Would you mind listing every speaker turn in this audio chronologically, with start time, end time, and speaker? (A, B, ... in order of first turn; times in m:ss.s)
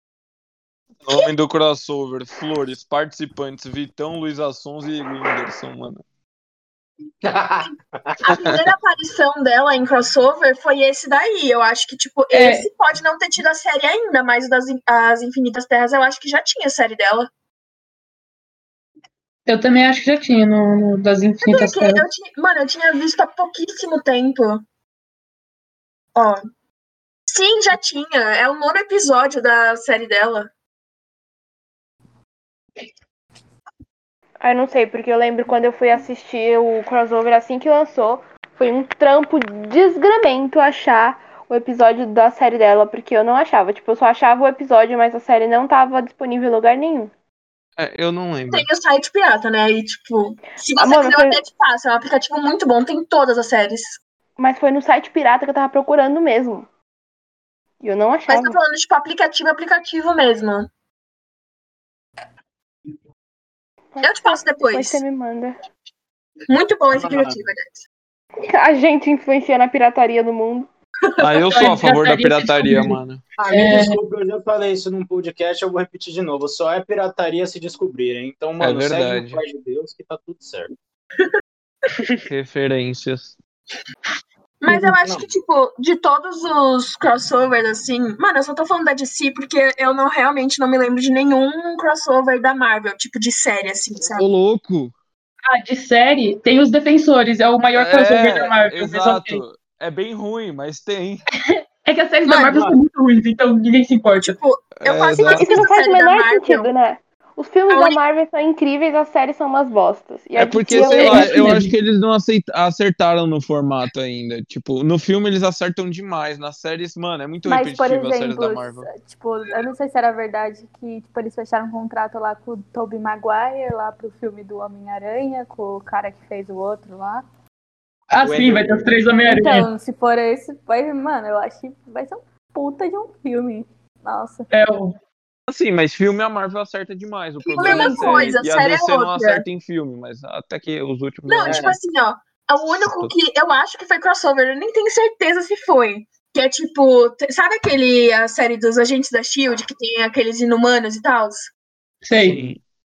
0:01.0-0:06.0 A
0:07.2-0:08.2 B
0:08.2-0:17.3 C
0:12.3-0:12.7 D
0:19.5-0:22.0 D
0:21.4-0:24.6 C
0:26.1-0:26.4 C
0:27.3-0:30.5 C
0:34.4-0:47.1 E
0:47.8-0:48.7 A
0:48.5-0:54.0 C
0:50.8-0:51.4 E
0:54.4-0:56.7 E
0:57.8-0:58.6 E
0:58.3-1:00.7 C
1:03.9-1:05.6 E
1:04.0-1:05.0 C
1:06.5-1:07.8 C
1:06.9-1:07.4 B
1:08.5-1:10.7 E
1:11.2-1:13.2 A
1:11.4-1:13.0 D
1:13.4-1:20.7 B
1:13.5-1:14.0 D
1:18.6-1:19.4 A
1:22.3-1:23.3 A
1:24.6-1:34.2 C
1:24.7-1:25.3 B
1:34.1-1:34.9 A
1:35.5-1:39.4 D
1:37.7-1:41.2 A
1:41.8-1:44.4 D
1:42.2-1:42.7 C
1:42.4-1:42.7 B
1:44.2-1:46.7 C
1:44.8-1:45.5 A
1:45.1-1:51.6 E
1:47.7-1:48.0 C
1:50.4-1:58.9 A
1:50.7-1:51.7 D
1:57.4-2:07.2 F
2:08.1-2:09.7 D
2:08.2-2:08.9 B
2:09.2-2:14.5 F
2:14.5-2:15.0 D
2:15.5-2:21.8 A
2:17.4-2:19.4 C
2:21.2-2:31.5 C
2:21.4-2:21.7 B
2:32.0-2:32.4 D
2:32.1-2:32.6 A
2:32.2-2:32.5 B